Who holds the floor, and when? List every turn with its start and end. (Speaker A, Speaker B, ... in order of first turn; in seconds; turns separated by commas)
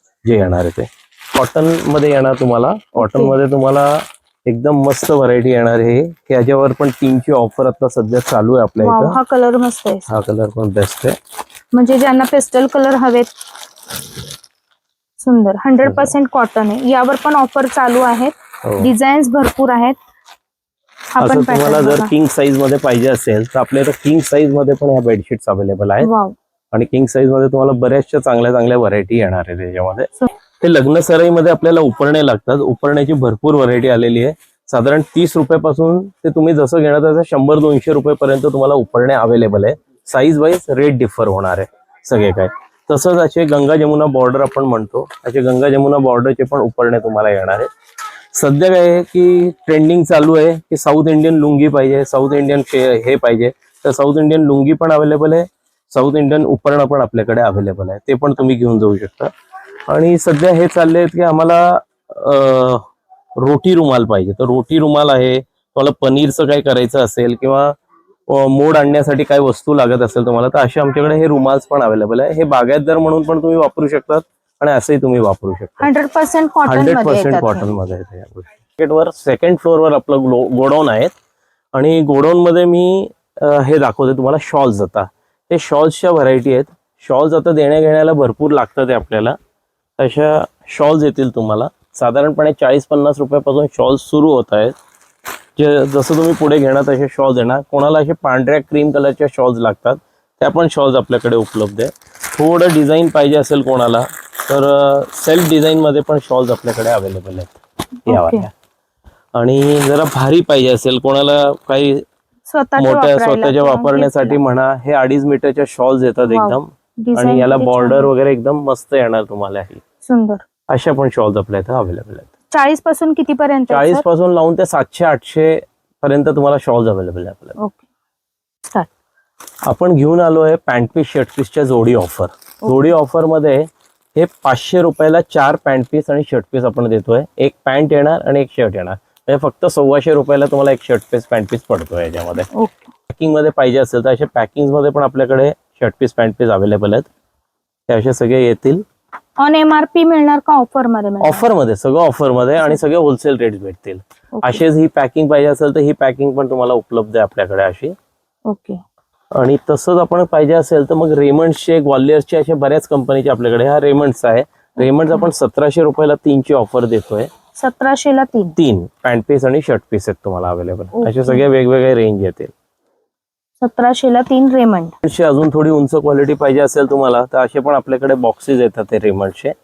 Speaker A: 0.2-9.2, Speaker B: 3.0-3.4, Speaker B: 8.8-10.1, Speaker A: 10.1-11.2, Speaker B: 11.7-13.3, Speaker B: 15.2-20.0, Speaker A: 15.8-16.1, Speaker A: 18.6-18.9, Speaker B: 21.1-22.1, Speaker A: 21.2-26.1, Speaker B: 26.0-26.3, Speaker A: 26.7-47.7, Speaker A: 48.3-59.3, Speaker A: 59.9-67.7, Speaker A: 68.3-75.9, Speaker B: 75.8-77.7, Speaker A: 76.6-81.1, Speaker A: 81.7-89.4, Speaker A: 90.0-94.7, Speaker A: 95.6-108.5, Speaker B: 108.1-108.5, Speaker A: 109.3-112.0, Speaker B: 112.5-114.4, Speaker A: 112.8-119.8, Speaker B: 116.2-118.1, Speaker B: 120.0-120.4, Speaker A: 120.7-122.3, Speaker B: 122.5-124.0, Speaker A: 123.7-127.5, Speaker B: 127.6-127.8, Speaker A: 129.7-142.5, Speaker B: 142.5-142.8, Speaker A: 143.1-147.1, Speaker A: 147.9-148.8, Speaker B: 149.4-151.4, Speaker A: 151.2-157.9, Speaker B: 154.3-154.6, Speaker B: 158.5-158.8, Speaker A: 159.3-167.3, Speaker B: 167.6-168.6, Speaker A: 168.6-172.5, Speaker B: 170.9-171.4, Speaker B: 173.6-174.9, Speaker A: 175.0-179.5